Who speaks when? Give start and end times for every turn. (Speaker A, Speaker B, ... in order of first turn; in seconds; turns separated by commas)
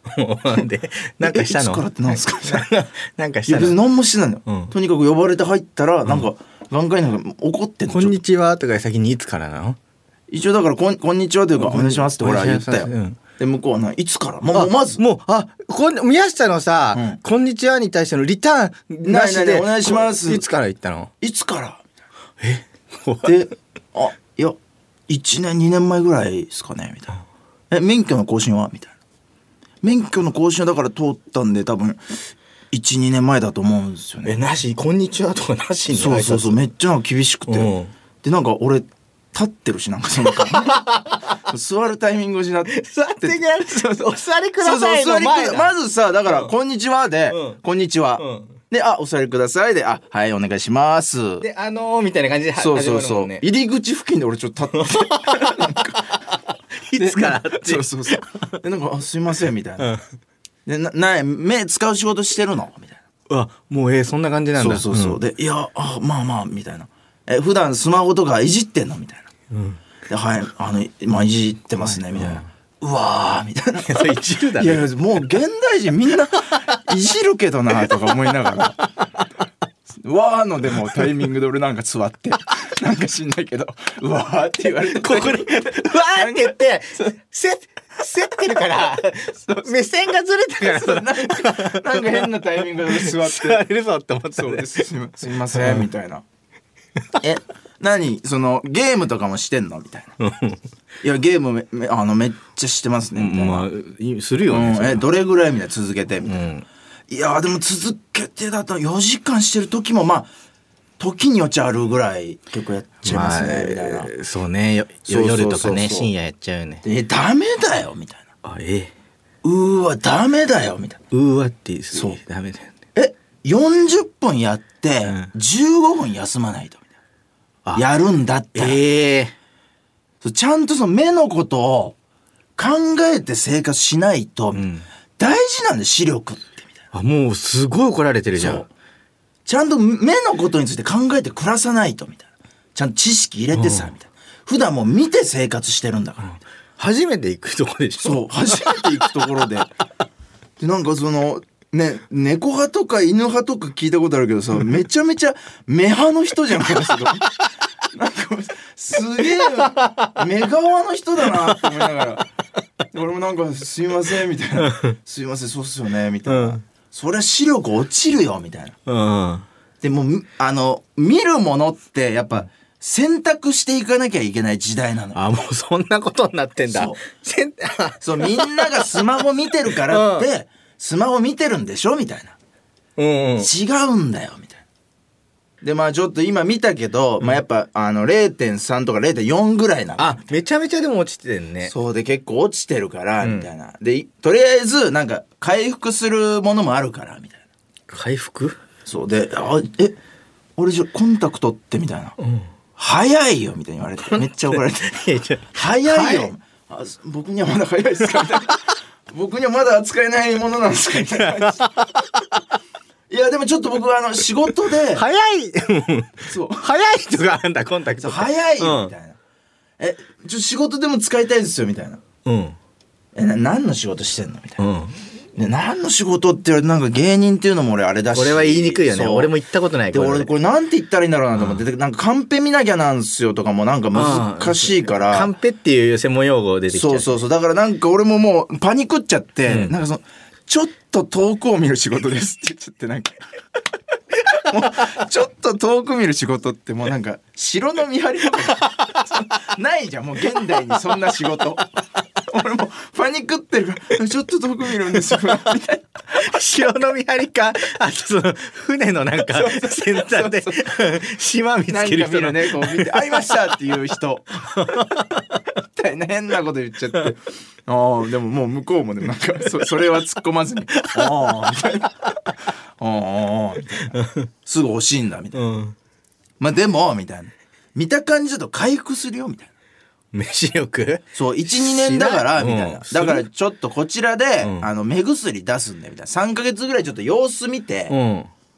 Speaker A: 0.2-3.8, Speaker B: 1.2-2.7, Speaker B: 3.5-8.2, Speaker A: 4.5-4.7, Speaker A: 7.9-9.8, Speaker B: 10.3-15.0, Speaker A: 11.6-13.2, Speaker A: 14.5-21.1, Speaker B: 16.9-17.2, Speaker B: 19.1-20.5, Speaker B: 21.2-21.8, Speaker A: 22.4-23.4, Speaker B: 23.2-24.6, Speaker B: 25.1-27.2, Speaker B: 27.7-28.9, Speaker B: 29.8-32.0, Speaker B: 32.7-34.4, Speaker A: 34.2-36.6, Speaker B: 35.9-40.8, Speaker A: 37.5-37.9, Speaker A: 40.2-41.2, Speaker B: 41.5-43.9, Speaker A: 42.7-45.7, Speaker B: 44.6-51.5, Speaker A: 47.3-47.6, Speaker A: 48.2-48.5, Speaker A: 51.4-53.4, Speaker B: 52.6-56.0, Speaker A: 54.7-56.2, Speaker A: 56.8-58.2, Speaker B: 57.0-59.9, Speaker B: 60.7-63.0, Speaker A: 63.3-65.2, Speaker B: 64.6-69.3, Speaker A: 69.5-69.8, Speaker B: 70.1-78.8, Speaker A: 71.8-72.5, Speaker A: 73.8-74.8, Speaker B: 80.0-87.1, Speaker A: 84.9-94.9, Speaker B: 89.5-89.9, Speaker B: 90.6-93.7, Speaker B: 94.4-96.2, Speaker A: 95.5-95.9, Speaker B: 97.2-100.1, Speaker A: 100.2-100.6, Speaker B: 101.0-103.7, Speaker A: 103.2-105.1, Speaker B: 104.5-106.5, Speaker A: 106.2-106.7, Speaker B: 107.1-110.3, Speaker B: 111.0-114.1, Speaker A: 113.0-116.8, Speaker B: 115.1-116.1, Speaker B: 116.8-118.3, Speaker A: 118.4-118.9, Speaker B: 119.4-121.0, Speaker A: 121.1-122.7, Speaker B: 121.9-122.2, Speaker B: 123.0-126.8, Speaker A: 125.0-125.3, Speaker B: 127.8-128.8, Speaker A: 128.5-129.3, Speaker B: 130.2-131.9, Speaker B: 132.6-134.6, Speaker A: 134.5-134.8, Speaker B: 135.2-136.8, Speaker A: 136.9-138.7, Speaker B: 138.4-138.7, Speaker B: 139.5-146.3, Speaker A: 143.5-143.9, Speaker A: 146.2-149.1, Speaker B: 148.0-149.7, Speaker B: 150.6-157.3, Speaker B: 157.9-162.3, Speaker A: 159.7-160.1, Speaker A: 161.5-162.0, Speaker B: 162.9-168.8, Speaker A: 164.6-164.9, Speaker A: 166.3-166.6, Speaker A: 168.9-169.5, Speaker B: 169.8-175.2, Speaker A: 175.1-180.3, Speaker B: 176.7-177.0, Speaker B: 178.0-182.3, Speaker A: 183.0-183.5, Speaker B: 183.4-184.6, Speaker B: 185.6-190.4, Speaker A: 190.0-191.7, Speaker B: 191.6-197.4, Speaker A: 193.2-193.5, Speaker A: 197.9-198.6, Speaker B: 198.9-200.0, Speaker B: 200.6-202.2, Speaker A: 202.2-202.5, Speaker B: 202.8-205.0, Speaker A: 204.1-206.3, Speaker B: 205.5-211.7, Speaker A: 211.4-212.0, Speaker B: 213.1-215.1, Speaker A: 214.9-218.9, Speaker B: 216.3-217.2, Speaker B: 218.0-219.2, Speaker B: 219.8-222.0, Speaker A: 222.2-222.6, Speaker B: 223.2-224.6, Speaker A: 224.6-225.0, Speaker B: 225.4-229.3, Speaker A: 228.1-230.3, Speaker B: 229.9-235.3, Speaker A: 231.4-231.6, Speaker A: 233.9-237.1, Speaker B: 236.7-243.2, Speaker A: 239.5-239.8, Speaker B: 244.3-251.7, Speaker B: 252.3-256.0, Speaker A: 256.1-263.3, Speaker B: 259.2-260.6, Speaker B: 261.7-265.0, Speaker A: 264.6-265.2, Speaker B: 265.8-271.9, Speaker A: 270.7-271.4, Speaker B: 272.8-275.4, Speaker A: 273.9-274.2, Speaker A: 275.4-275.8, Speaker B: 276.4-279.5, Speaker A: 280.1-283.3, Speaker B: 281.1-287.9, Speaker A: 284.4-284.7, Speaker A: 287.9-288.3